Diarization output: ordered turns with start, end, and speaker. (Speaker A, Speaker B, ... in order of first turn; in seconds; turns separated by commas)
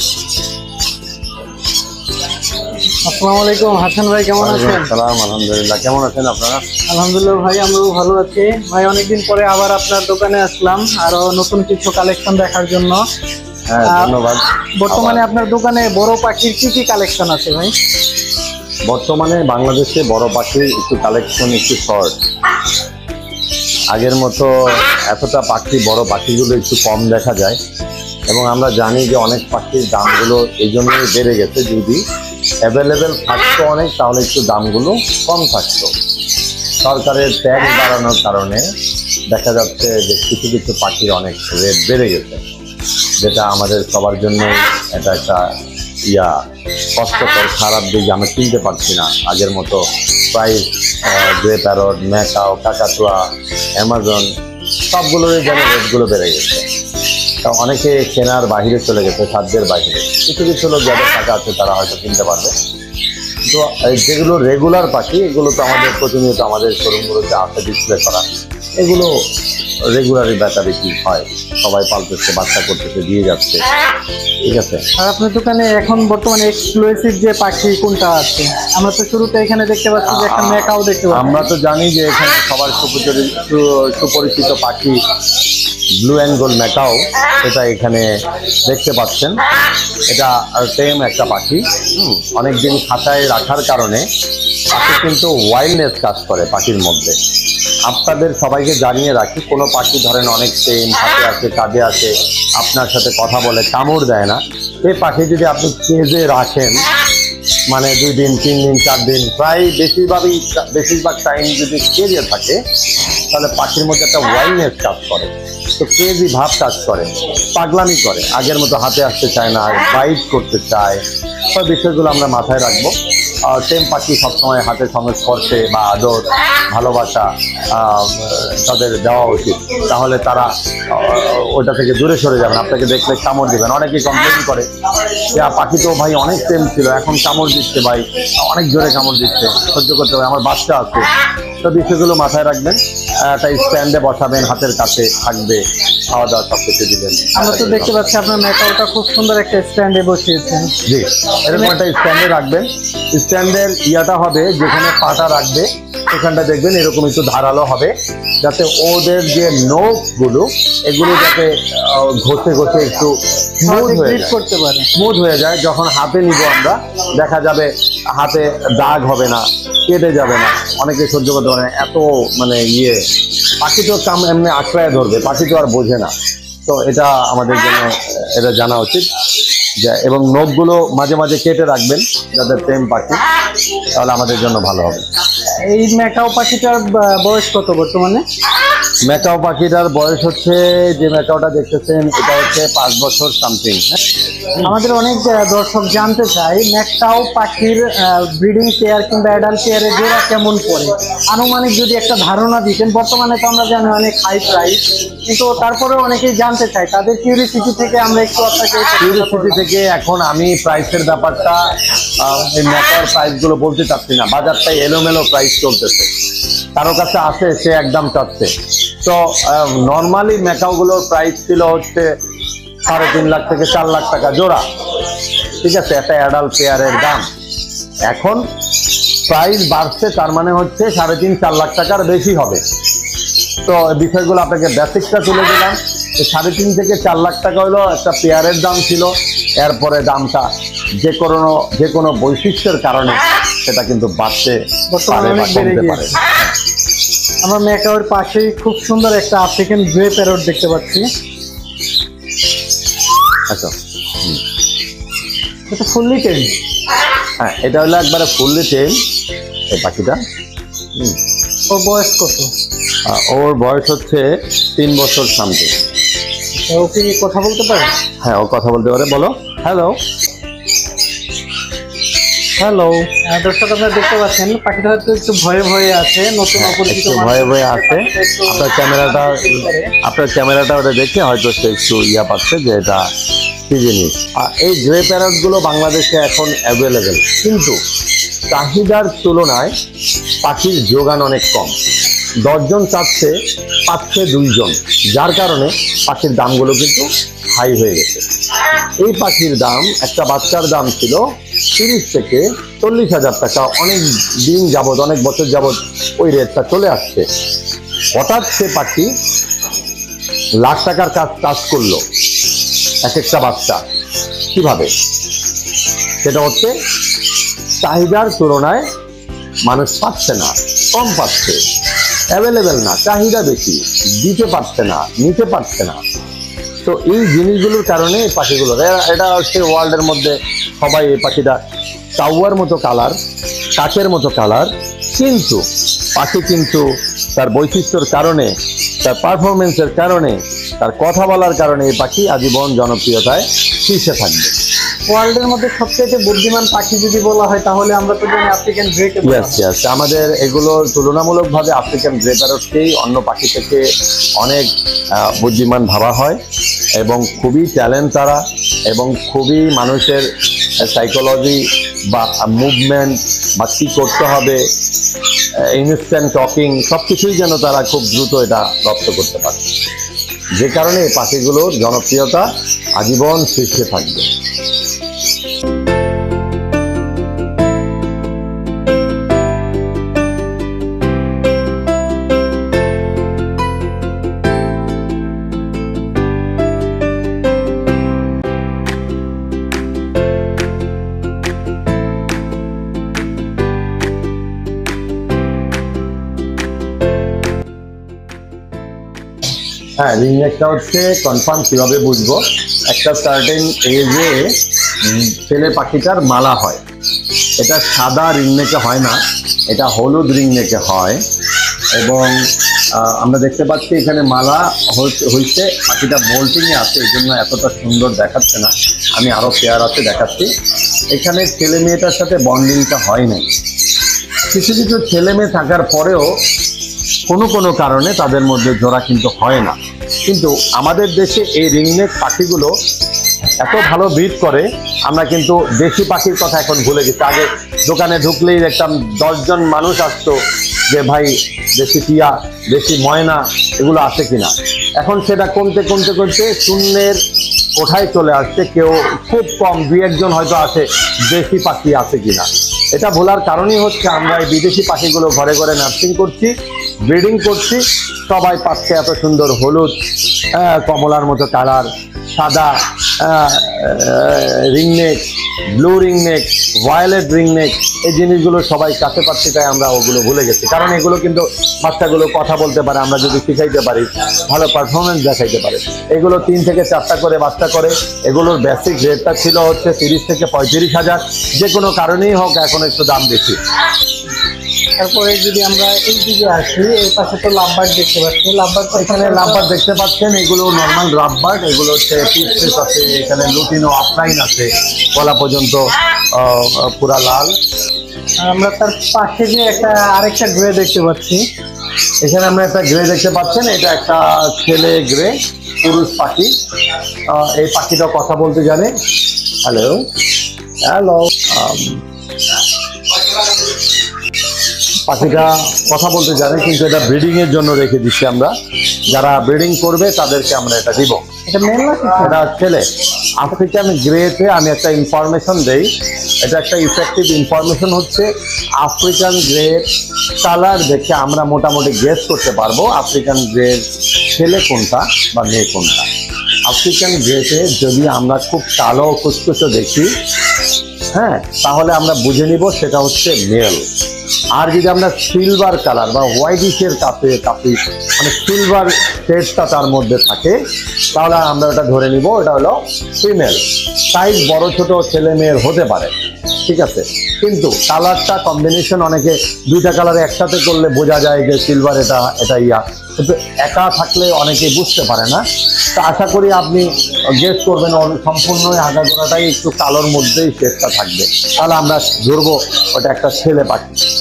Speaker A: 2.9-4.9, Speaker B: 4.4-6.6, Speaker A: 6.9-13.0, Speaker B: 13.7-15.2, Speaker A: 13.8-14.2, Speaker A: 14.8-17.7, Speaker B: 18.9-22.2, Speaker B: 23.9-27.6, Speaker B: 28.3-32.0, Speaker B: 32.6-35.9, Speaker B: 36.8-38.7, Speaker B: 39.3-42.4, Speaker B: 43.2-45.6, Speaker B: 46.1-46.4, Speaker B: 47.0-54.3, Speaker B: 54.9-56.7, Speaker B: 57.4-62.5, Speaker B: 63.5-68.2, Speaker B: 68.8-69.3, Speaker B: 69.9-73.7, Speaker B: 74.4-74.8, Speaker A: 75.0-81.5, Speaker B: 80.1-85.0, Speaker B: 86.0-89.4, Speaker B: 90.1-94.1, Speaker B: 94.7-97.2, Speaker B: 97.9-106.9, Speaker B: 107.7-112.6, Speaker B: 113.3-148.1, Speaker A: 147.3-150.8, Speaker B: 150.9-164.4, Speaker A: 163.6-164.9, Speaker B: 164.9-173.1, Speaker B: 173.6-176.1, Speaker B: 176.7-179.1, Speaker B: 179.8-183.2, Speaker B: 183.9-185.1, Speaker A: 185.6-188.2, Speaker B: 189.0-194.0, Speaker A: 194.6-209.6, Speaker B: 209.0-216.1, Speaker B: 216.8-222.2, Speaker B: 222.8-224.6, Speaker B: 225.6-227.3, Speaker B: 228.1-228.5, Speaker B: 229.3-232.6, Speaker B: 233.6-240.5, Speaker B: 241.0-246.6, Speaker A: 244.9-246.2, Speaker A: 247.4-251.1, Speaker B: 253.5-254.4, Speaker A: 255.7-256.6, Speaker B: 257.4-259.0, Speaker B: 259.7-260.2, Speaker A: 261.7-262.5, Speaker B: 263.1-265.8, Speaker A: 266.6-267.9, Speaker B: 268.2-270.0, Speaker A: 272.6-279.9, Speaker B: 276.6-283.1, Speaker B: 283.7-287.8, Speaker B: 288.5-289.8, Speaker B: 290.4-291.8, Speaker B: 292.4-307.3, Speaker B: 308.1-309.1, Speaker B: 310.6-312.0, Speaker B: 313.0-313.8, Speaker B: 314.5-314.9, Speaker B: 316.2-316.8, Speaker B: 317.8-318.9, Speaker B: 319.7-321.6, Speaker B: 322.3-326.0, Speaker B: 326.8-331.6, Speaker B: 332.2-333.2, Speaker B: 333.8-344.5, Speaker A: 345.1-349.6, Speaker B: 349.2-353.9, Speaker B: 354.4-356.4, Speaker B: 357.0-360.3, Speaker B: 360.8-364.6, Speaker B: 365.6-369.6, Speaker B: 370.6-374.3, Speaker B: 400.0-406.8, Speaker B: 407.6-411.2, Speaker B: 411.9-420.5, Speaker B: 421.1-423.5, Speaker B: 424.5-426.4, Speaker B: 427.3-432.8, Speaker B: 433.6-440.4, Speaker B: 440.9-447.2, Speaker B: 447.8-456.5, Speaker B: 457.1-459.9, Speaker B: 460.5-465.2, Speaker B: 465.8-483.6, Speaker A: 485.0-489.7, Speaker B: 488.9-497.6, Speaker A: 498.4-501.5, Speaker B: 502.2-506.6, Speaker B: 507.3-508.9, Speaker B: 509.6-510.1, Speaker B: 510.9-512.0, Speaker B: 515.1-518.5, Speaker B: 519.1-521.2, Speaker A: 521.5-522.4, Speaker B: 522.2-525.9, Speaker B: 526.4-529.9, Speaker B: 530.4-533.8, Speaker B: 534.3-536.1, Speaker B: 536.7-540.1, Speaker B: 541.1-543.9, Speaker B: 544.6-550.6, Speaker B: 551.1-556.1, Speaker B: 556.6-565.4, Speaker B: 566.0-574.0